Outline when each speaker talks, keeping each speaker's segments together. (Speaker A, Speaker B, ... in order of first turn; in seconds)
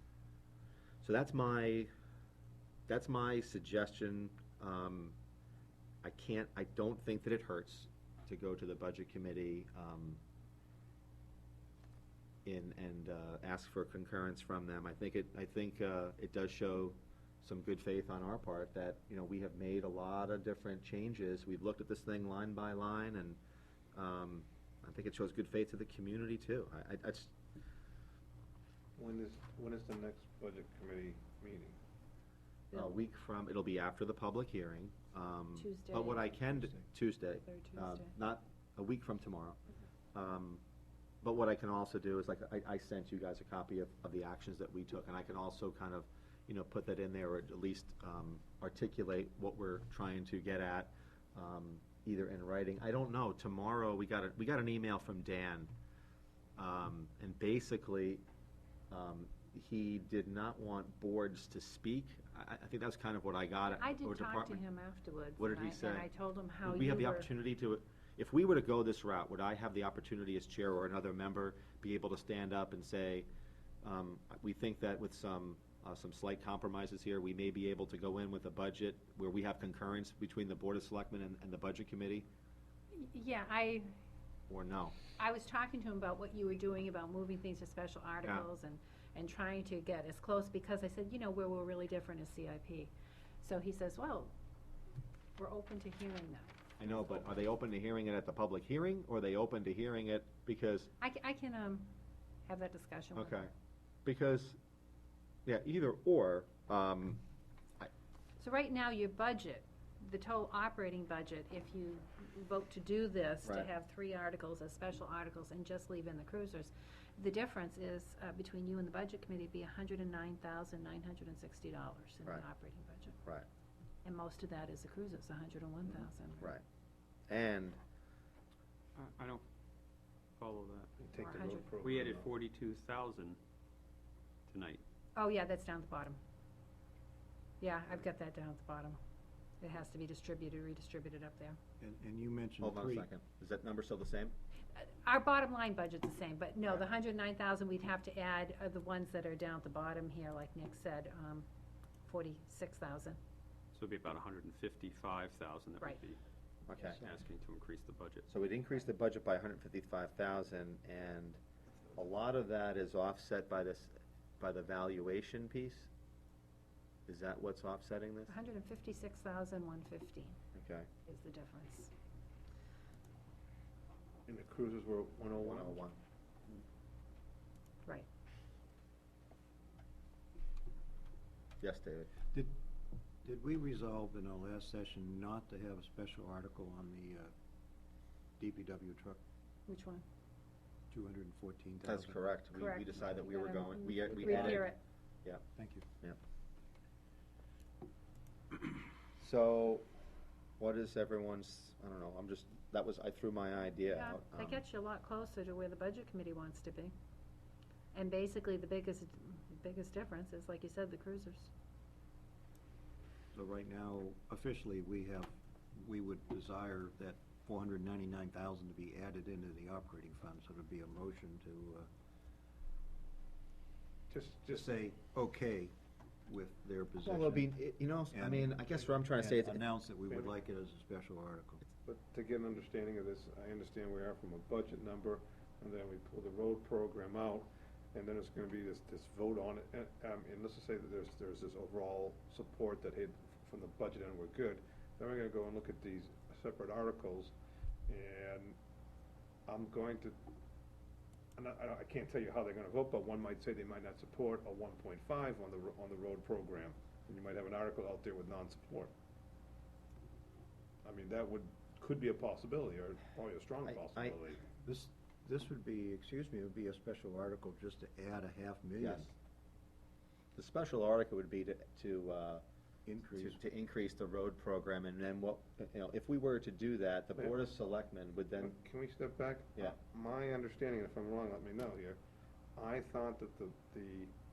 Speaker A: 1.0-1.9, 2.9-5.2, 6.0-10.2, 12.4-23.4, 23.9-27.3, 32.7-39.6, 40.1-40.6, 41.2-55.7, 56.6-58.2, 58.9-64.6, 65.4-66.0, 66.6-73.3, 73.8-82.3, 84.5-85.0, 96.8-100.9, 103.1-103.5, 104.0-104.6, 105.5-107.2, 113.4-113.7, 127.3-127.8, 142.6-144.3, 156.7-157.0, 158.3-161.4, 161.9-165.9, 167.1-168.3, 170.5-170.9, 175.3-176.0, 181.6-182.1, 191.8-194.7, 199.2-199.9, 200.6-204.6, 227.0-229.6, 263.6-264.2, 268.8-269.1, 270.3-272.4, 273.1-278.5
Speaker B: 28.9-31.8, 131.0-132.3, 174.3-175.9, 224.1-224.6, 231.8-247.3, 247.9-248.6, 249.5-250.2, 251.4-258.9, 260.8-264.4, 278.4-282.0, 282.5-284.1
Speaker C: 32.7-33.0, 35.5-36.4, 37.4-38.1, 63.6-67.3, 82.9-83.9, 85.2-94.3, 95.4-97.3, 101.0-101.9, 102.5-103.4, 108.4-123.2, 124.0-126.5, 131.2-131.7, 135.2-136.2, 137.6-139.0, 139.6-141.6, 144.7-151.4, 152.1-153.2, 168.3-170.4, 171.1-171.9, 189.7-190.0, 192.5-194.8, 203.8-206.9, 207.9-211.5
Speaker D: 129.0-129.4, 130.4-130.9, 131.8-133.4, 134.5-134.8, 153.7-156.2, 156.9-158.3
Speaker E: 141.8-143.1, 156.8-157.1, 183.2-187.3, 188.4-189.2, 190.9-192.2, 194.2-194.6, 195.5-195.9, 213.3-221.9, 224.4-225.7, 226.3-227.5, 228.1-231.6, 264.6-269.1, 272.9-273.4